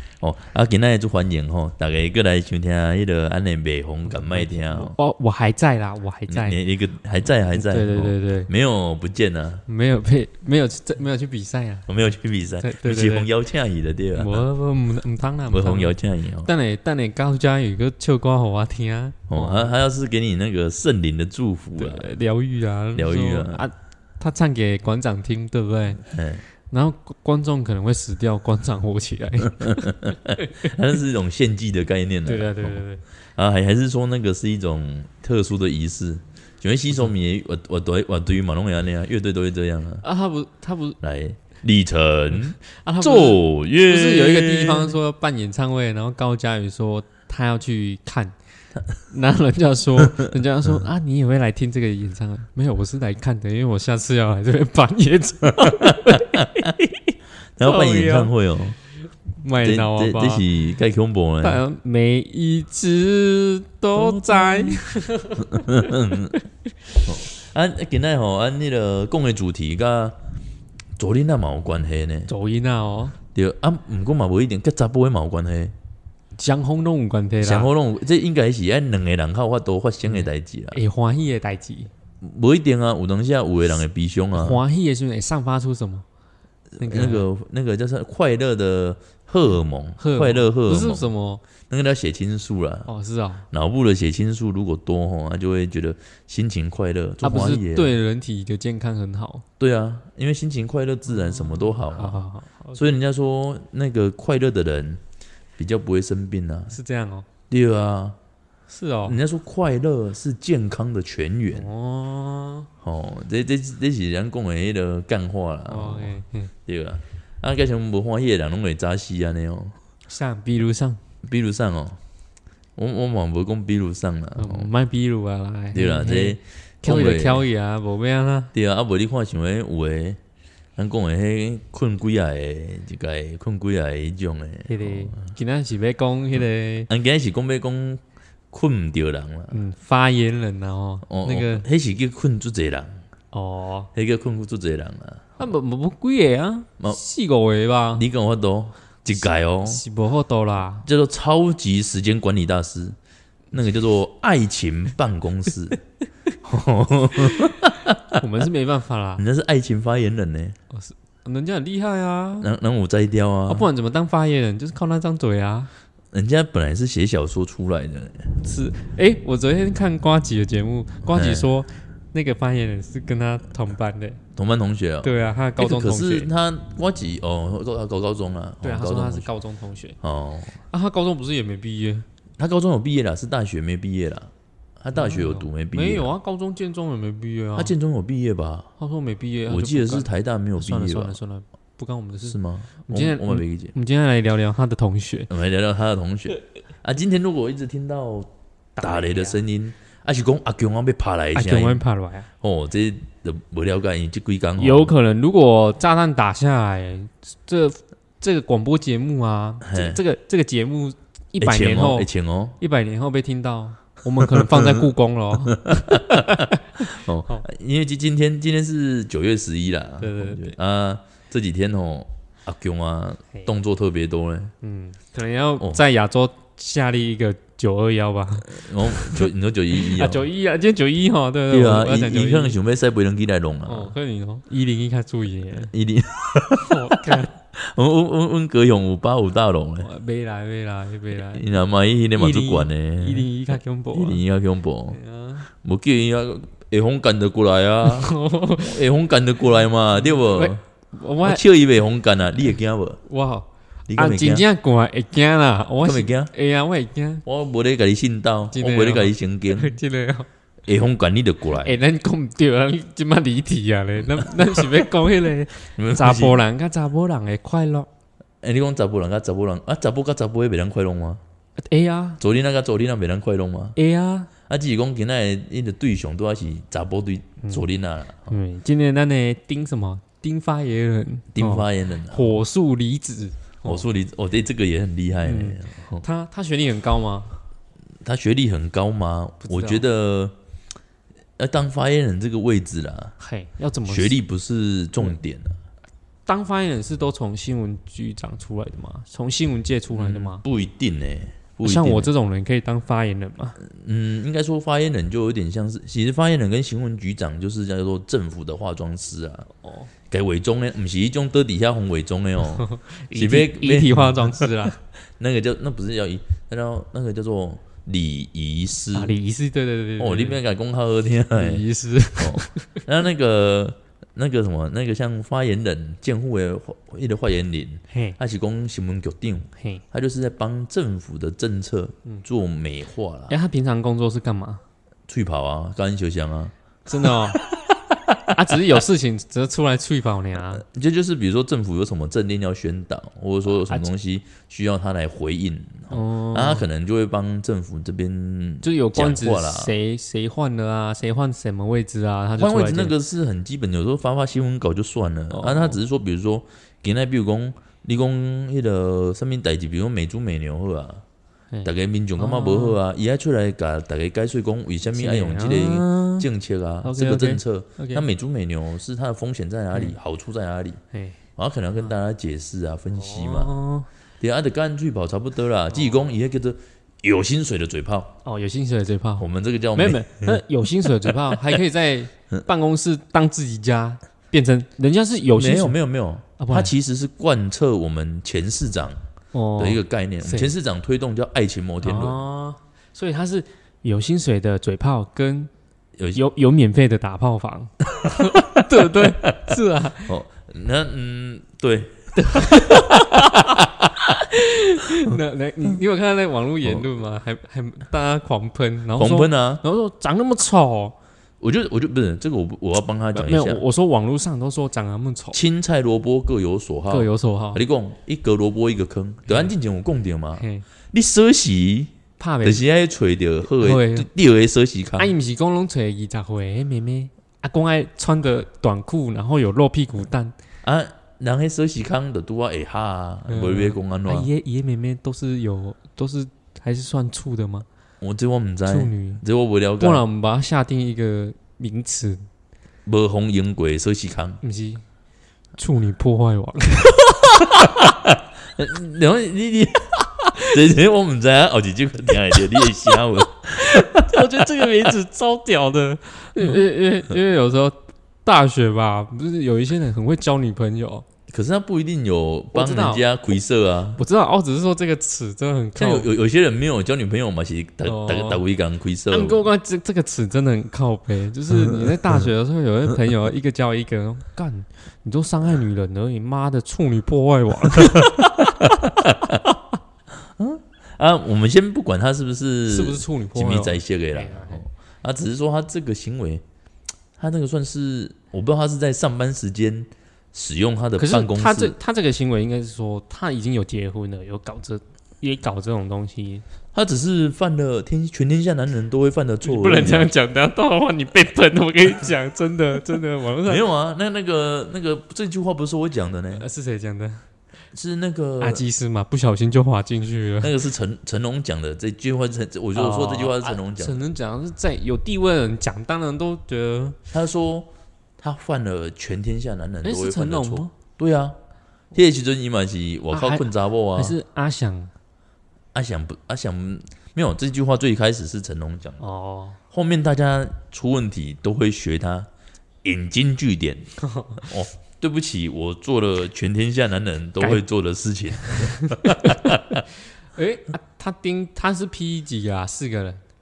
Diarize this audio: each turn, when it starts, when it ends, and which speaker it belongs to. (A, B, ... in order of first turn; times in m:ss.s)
0:00.2-0:05.0 A
0:04.1-0:06.6 B
0:06.3-0:09.6 A
0:07.5-0:08.5 B
0:09.7-0:11.9 B
0:11.9-0:14.4 A
0:12.6-0:13.3 B
0:14.1-0:19.8 B
0:15.5-0:16.5 A
0:19.3-0:22.1 A
0:21.8-0:26.0 B
0:22.9-0:23.6 A
0:26.0-0:26.4 A
0:26.7-0:30.7 B
0:29.6-0:32.8 A
0:32.3-0:33.0 B
0:33.4-0:40.0 A
0:40.0-0:41.0 B
0:41.0-0:44.9 A
0:42.6-0:48.4 B
0:49.1-0:58.3 B
0:50.0-0:50.3 A
0:55.5-0:56.7 A
0:57.6-0:58.8 A
0:59.3-1:00.5 B
0:59.6-1:01.6 A
1:01.4-1:06.4 B
1:04.0-1:04.8 A
1:05.4-1:06.4 A
1:07.0-1:10.2 A
1:11.0-1:12.3 A
1:12.3-1:13.2 B
1:13.3-1:15.7 A
1:16.4-1:17.7 B
1:17.4-1:20.8 A
1:20.1-1:21.9 B
1:22.2-1:24.6 A
1:24.3-1:26.0 B
1:26.8-1:31.1 A
1:26.8-1:27.3 B
1:30.0-1:31.4 B
1:31.7-1:32.9 A
1:32.9-1:33.5 B
1:33.5-1:38.0 A
1:37.2-1:39.4 B
1:39.6-1:45.0 A
1:41.1-1:42.8 B
1:45.6-1:46.8 A
1:46.7-1:47.3 B
1:47.5-1:48.2 A
1:48.7-1:49.2 B
1:49.0-1:51.7 A
1:51.5-1:52.7 B
1:52.8-1:59.8 A
1:55.7-1:56.5 B
2:00.1-2:01.0 B
2:01.2-2:02.0 A
2:02.8-2:04.7 A
2:04.4-2:08.5 B
2:05.7-2:07.5 A
2:08.5-2:10.2 A
2:10.8-2:15.3 A
2:14.7-2:16.9 B
2:16.9-2:19.6 A
2:19.5-2:21.7 B
2:21.1-2:23.0 A
2:23.3-2:23.9 B
2:23.9-2:25.3 A
2:25.4-2:28.1 B
2:28.0-2:29.8 A
2:29.1-2:30.9 B
2:30.8-2:33.0 A
2:33.5-2:35.8 A
2:36.4-2:38.2 A
2:38.2-2:39.2 B
2:39.2-2:40.6 A
2:40.7-2:42.5 B
2:42.4-2:43.7 A
2:43.5-2:45.7 B
2:46.1-2:48.3 A
2:48.4-2:54.2 B
2:51.0-2:51.5 A
2:54.4-2:59.3 A
2:55.0-2:56.3 B
2:58.6-3:00.0 B
3:00.0-3:00.6 A
3:00.7-3:02.1 B
3:02.4-3:06.1 A
3:04.9-3:07.8 B
3:07.6-3:08.7 A
3:08.8-3:15.3 B
3:09.5-3:11.2 A
3:12.2-3:13.7 A
3:15.3-3:21.8 A
3:18.8-3:19.4 B
3:21.3-3:22.3 B
3:22.4-3:24.9 A
3:24.6-3:37.4 B
3:29.6-3:30.0 A
3:31.4-3:32.6 A
3:35.5-3:44.5 A
3:40.0-3:40.6 B
3:44.6-3:52.6 B
3:48.4-3:50.2 A
3:51.5-3:53.9 A
3:53.7-3:55.7 B
3:55.7-3:59.9 A
3:56.7-3:57.3 B
3:59.8-4:01.6 B
4:01.2-4:10.6 A
4:02.2-4:04.2 B
4:04.9-4:05.5 B
4:07.8-4:08.8 B
4:10.0-4:11.4 B
4:11.2-4:13.0 A
4:13.0-4:17.2 B
4:13.9-4:14.5 A
4:15.8-4:16.3 A
4:17.2-4:19.8 A
4:18.5-4:20.3 B
4:20.7-4:21.8 A
4:21.5-4:27.9 B
4:24.2-4:24.7 A
4:25.8-4:26.4 A
4:28.4-4:31.2 A
4:31.6-4:32.2 B
4:32.2-4:33.8 A
4:33.8-4:34.3 B
4:34.5-4:38.4 A
4:38.3-4:43.8 B
4:41.3-4:42.4 A
4:43.6-4:46.0 A
4:45.2-4:47.4 B
4:48.0-4:50.3 A
4:49.4-4:49.8 B
4:51.4-4:53.1 A
4:53.2-4:54.2 B
4:53.9-4:55.6 A
4:56.3-5:00.4 B
4:59.9-5:02.1 A
5:01.6-5:03.6 B
5:03.6-5:09.5 A
5:09.6-5:09.9 B
5:10.1-5:19.1 A
5:12.6-5:14.8 B
5:18.9-5:20.4 B
5:20.0-5:21.6 A
5:21.3-5:22.8 B
5:22.2-5:33.4 A
5:27.9-5:28.2 B
5:29.6-5:29.8 B
5:33.3-5:34.6 B
5:35.1-5:37.3 A
5:36.9-5:37.4 B
5:38.3-5:40.6 B
5:40.5-5:49.7 A
5:45.9-5:46.7 B
5:48.6-5:52.9 B
5:52.4-6:01.0 A
5:55.3-5:55.8 B
6:01.5-6:02.8 B
6:01.6-6:10.8 A
6:04.9-6:06.3 B
6:06.8-6:08.1 B
6:10.9-6:11.2 B
6:11.4-6:13.5 A
6:13.0-6:13.9 B
6:14.2-6:18.1 A
6:15.7-6:16.1 B
6:18.2-6:25.8 B
6:19.2-6:20.4 A
6:25.3-6:29.0 A
6:26.4-6:26.7 B
6:29.3-6:30.5 B
6:29.6-6:32.2 A
6:31.8-6:35.5 B
6:36.1-6:40.1 B
6:38.0-6:43.4 A
6:42.2-6:51.0 B
6:49.0-6:49.6 A
6:51.4-6:53.6 A
6:53.1-6:55.4 B
6:55.3-7:01.9 A
6:56.9-6:57.6 B
6:59.3-6:59.5 B
7:00.4-7:00.6 B
7:02.2-7:02.6 B
7:02.4-7:05.1 A
7:03.4-7:04.1 B
7:05.0-7:10.4 B
7:10.6-7:14.3 A
7:13.3-7:17.7 B
7:18.0-7:20.0 A
7:18.7-7:19.2 B
7:19.8-7:22.2 B
7:22.9-7:24.4 A
7:24.4-7:24.8 B
7:25.6-7:27.7 B
7:27.4-7:34.2 A
7:30.3-7:30.6 B
7:32.6-7:33.0 B
7:33.5-7:41.1 B
7:41.3-7:44.0 A
7:42.5-7:43.0 B
7:44.0-7:46.1 B
7:45.8-7:49.4 A
7:47.8-7:48.4 B
7:49.1-7:58.1 B
7:51.5-7:51.9 A
7:57.8-7:59.4 A
8:00.4-8:06.4 A
8:02.7-8:04.6 B
8:07.2-8:11.8 A
8:11.0-8:16.4 B
8:16.7-8:20.1 A
8:19.4-8:23.6 B
8:23.4-8:26.4 A
8:26.4-8:27.2 B
8:27.7-8:28.6 A
8:28.4-8:30.5 B
8:30.4-8:34.0 A
8:32.8-8:37.0 B
8:37.1-8:41.4 A
8:39.8-8:40.7 B
8:41.9-8:44.2 A
8:43.1-8:44.9 B
8:45.7-8:49.0 A
8:49.0-8:49.6 B
8:49.7-8:52.3 A
8:52.8-8:59.8 A
8:54.0-8:54.4 B
8:58.5-8:59.6 B
9:00.4-9:03.2 B